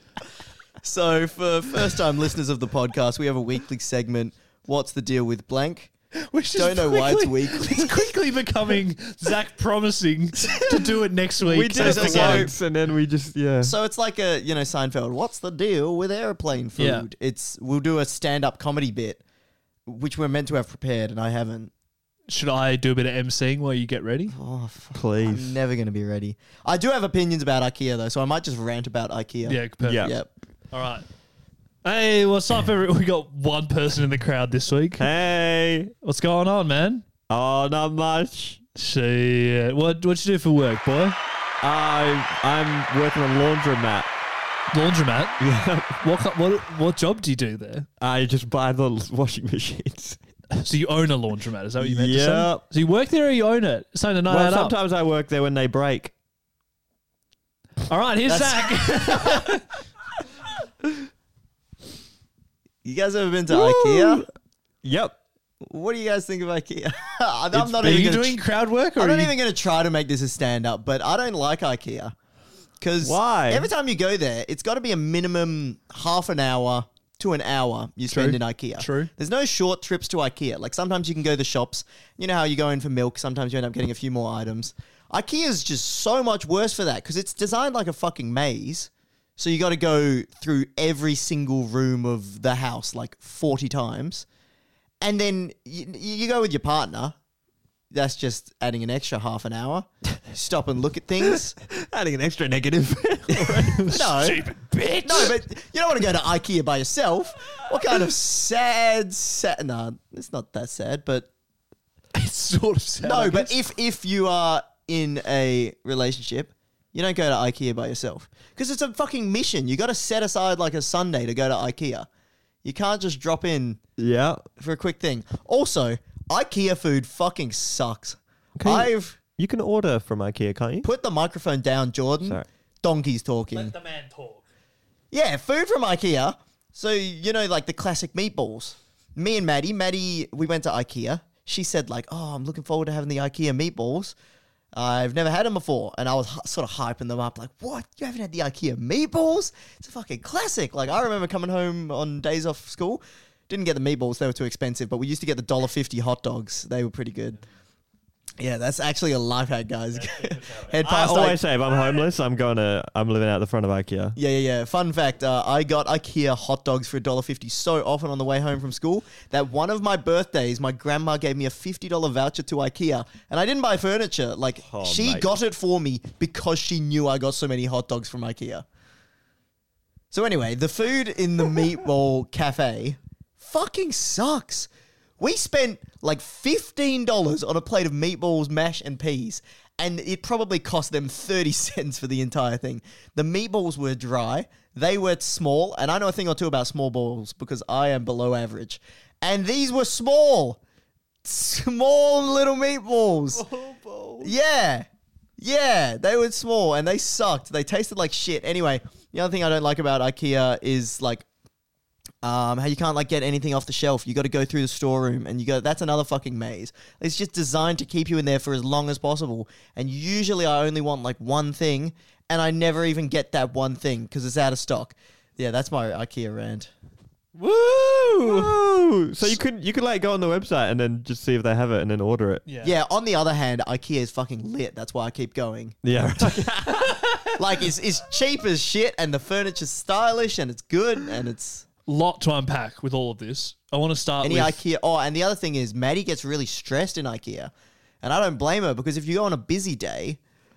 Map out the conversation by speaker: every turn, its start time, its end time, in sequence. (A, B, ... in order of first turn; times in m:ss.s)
0:00.8-0:05.9 A
0:06.3-0:12.5 B
0:06.6-0:08.0 A
0:11.4-0:13.8 C
0:11.8-0:12.5 A
0:13.6-0:19.2 A
0:16.8-0:17.1 B
0:19.9-0:21.7 A
0:22.3-0:24.3 B
0:24.3-0:30.3 A
0:24.9-0:25.6 C
0:29.5-0:30.2 B
0:29.8-0:30.2 C
0:30.7-0:31.0 B
0:31.8-0:35.1 B
0:35.0-0:35.9 C
0:36.0-0:37.0 B
0:37.3-0:38.6 C
0:38.8-0:41.2 B
0:41.6-0:44.1 C
0:44.7-0:45.4 B
0:45.4-0:46.0 C
0:46.0-0:47.9 B
0:48.0-0:50.2 C
0:50.6-0:54.8 B
0:51.8-0:52.6 C
0:54.3-0:56.1 C
0:57.9-0:59.6 B
0:58.3-0:59.4 A
1:02.8-1:04.2 A
1:03.5-1:04.3 C
1:04.8-1:05.2 C
1:05.6-1:08.4 A
1:07.5-1:09.4 B
1:09.0-1:12.1 A
1:12.8-1:34.3 A
1:13.0-1:13.7 C
1:18.1-1:19.1 B
1:35.0-1:37.2 A
1:37.9-1:41.6 A
1:41.2-1:44.1 C
1:43.3-1:44.4 A
1:43.9-1:45.4 B
1:45.0-1:51.3 A
1:52.2-1:53.6 B
1:53.0-2:02.1 A
2:02.6-2:03.8 A
2:04.0-2:04.4 C
2:04.6-2:09.2 A
2:08.6-2:10.9 C
2:10.8-2:13.7 A
2:12.2-2:12.5 C
2:13.5-2:14.4 B
2:15.1-2:24.2 A
2:24.7-2:37.4 A
2:38.4-2:41.4 A
2:40.7-2:44.2 C
2:44.2-2:58.6 A
2:54.6-2:55.3 C
3:00.1-3:20.6 A
3:21.2-3:23.4 A
3:23.3-3:24.3 C
3:24.2-3:24.9 A
3:25.4-3:31.2 A
3:32.2-3:46.7 A
3:48.2-3:52.5 C
3:52.5-3:52.8 B
3:52.6-3:55.8 A
3:55.8-3:57.0 C
3:57.4-4:01.7 A
4:01.9-4:04.6 B
4:04.2-4:07.5 A
4:08.0-4:10.2 A